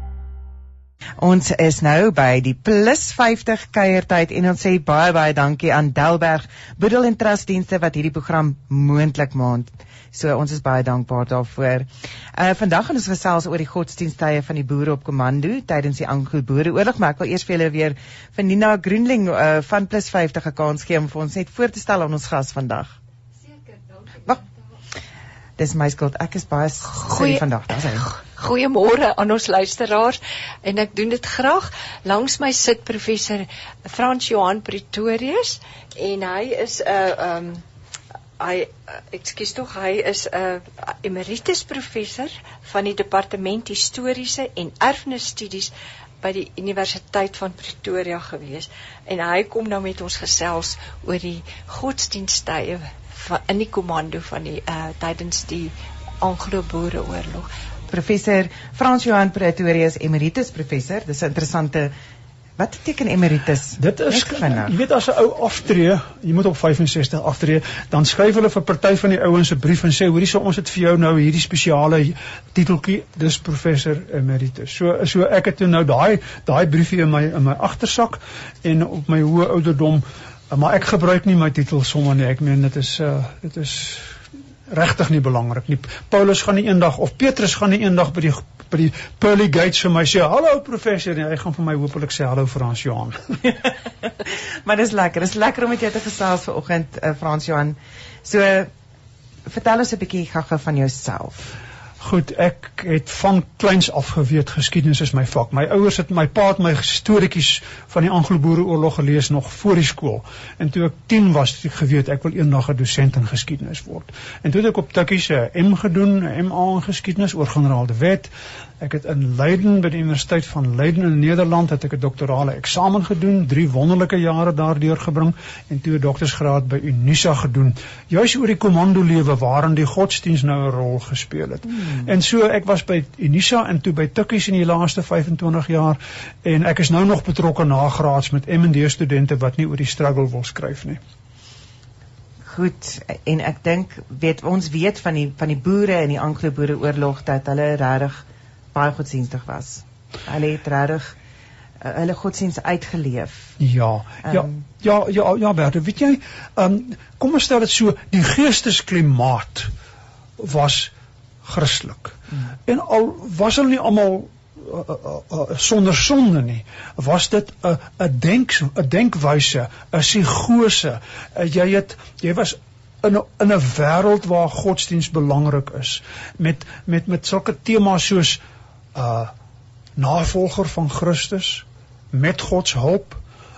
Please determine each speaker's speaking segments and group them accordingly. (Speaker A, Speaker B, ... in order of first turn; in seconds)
Speaker A: 1.2-23.0, 25.6-28.1, 57.9-61.9, 62.6-64.7, 94.0-98.7, 99.5-101.6, 142.4-151.2, 151.8-153.6, 154.2-154.6
Speaker B: 27.0-27.4, 28.0-37.6, 38.4-57.5
Speaker C: 63.8-84.1, 84.7-93.2, 102.0-141.0, 153.6-159.7, 160.4-160.9, 161.4-178.4, 178.9-179.3, 180.0-183.2